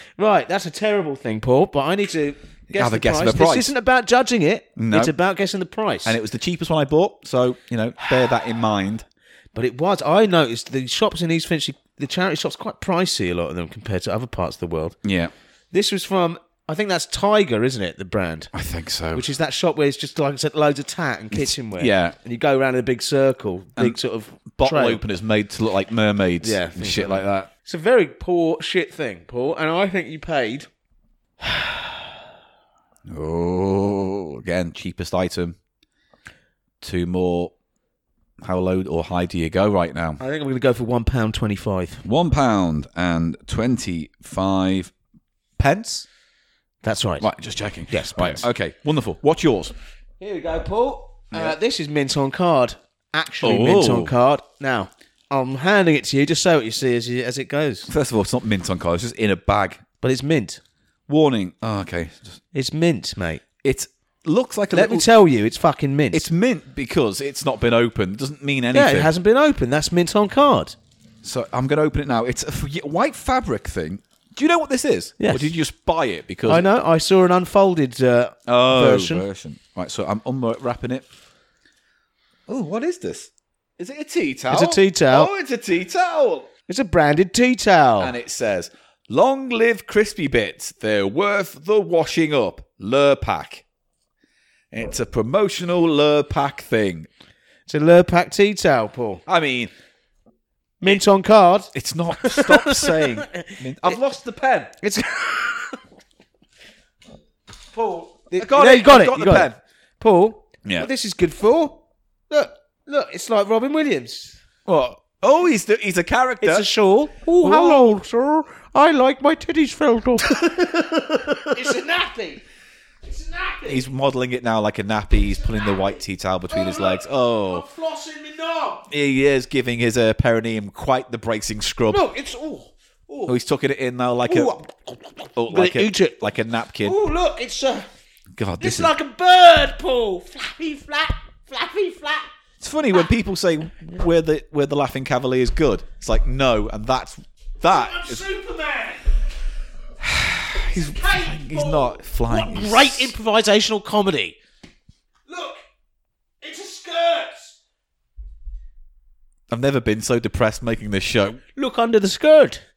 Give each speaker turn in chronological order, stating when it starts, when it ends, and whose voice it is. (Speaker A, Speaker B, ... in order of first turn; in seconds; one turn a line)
Speaker A: 0.2-6.2
Speaker B: 2.7-3.7
Speaker B: 4.8-5.1
Speaker B: 6.0-9.1
Speaker A: 9.5-14.9
Speaker B: 15.0-15.3
Speaker A: 15.7-18.5
Speaker B: 18.5-19.3
Speaker A: 19.1-25.0
Speaker B: 21.3-22.1
Speaker B: 24.5-27.5
Speaker A: 26.4-30.7
Speaker A: 31.4-31.9
Speaker B: 33.1-35.5
Speaker B: 36.8-37.5
Speaker B: 38.4-40.2
Speaker A: 40.2-42.0
Speaker B: 42.0-44.9
Speaker B: 45.6-46.0
Speaker A: 46.8-47.3
Speaker B: 47.2-49.7
Speaker A: 47.9-48.4
Speaker A: 50.2-57.9
Speaker B: 53.4-54.1
Speaker B: 57.9-59.8
Speaker A: 60.0-60.6
Speaker B: 61.1-62.4
Speaker A: 62.5-63.4
Speaker B: 63.6-65.1
Speaker A: 64.7-66.3
Speaker B: 66.1-69.1
Speaker A: 68.7-70.7
Speaker B: 71.2-76.7
Speaker A: 75.2-75.5
Speaker A: 76.5-79.2
Speaker B: 78.5-81.0
Speaker B: 82.5-86.5
Speaker A: 84.5-85.3
Speaker A: 86.7-88.1
Speaker B: 88.0-93.6
Speaker B: 94.7-97.1
Speaker A: 97.7-99.2
Speaker B: 99.2-99.7
Speaker A: 100.8-104.0
Speaker B: 101.7-104.8
Speaker A: 104.8-105.8
Speaker A: 107.7-114.4
Speaker B: 108.3-109.5
Speaker B: 114.7-116.7
Speaker A: 116.4-122.4
Speaker B: 117.4-118.0
Speaker A: 123.0-123.9
Speaker B: 123.7-127.6
Speaker A: 126.5-128.8
Speaker B: 128.9-132.0
Speaker A: 131.9-133.3
Speaker B: 133.2-134.5
Speaker A: 134.3-136.2
Speaker B: 135.3-136.9
Speaker A: 136.8-137.9
Speaker B: 138.3-138.9
Speaker A: 138.6-142.3
Speaker B: 142.6-148.2
Speaker A: 147.6-149.1
Speaker B: 150.0-153.1
Speaker A: 150.6-154.4
Speaker A: 155.3-155.6
Speaker A: 156.4-157.6
Speaker B: 159.5-161.4
Speaker A: 161.6-162.6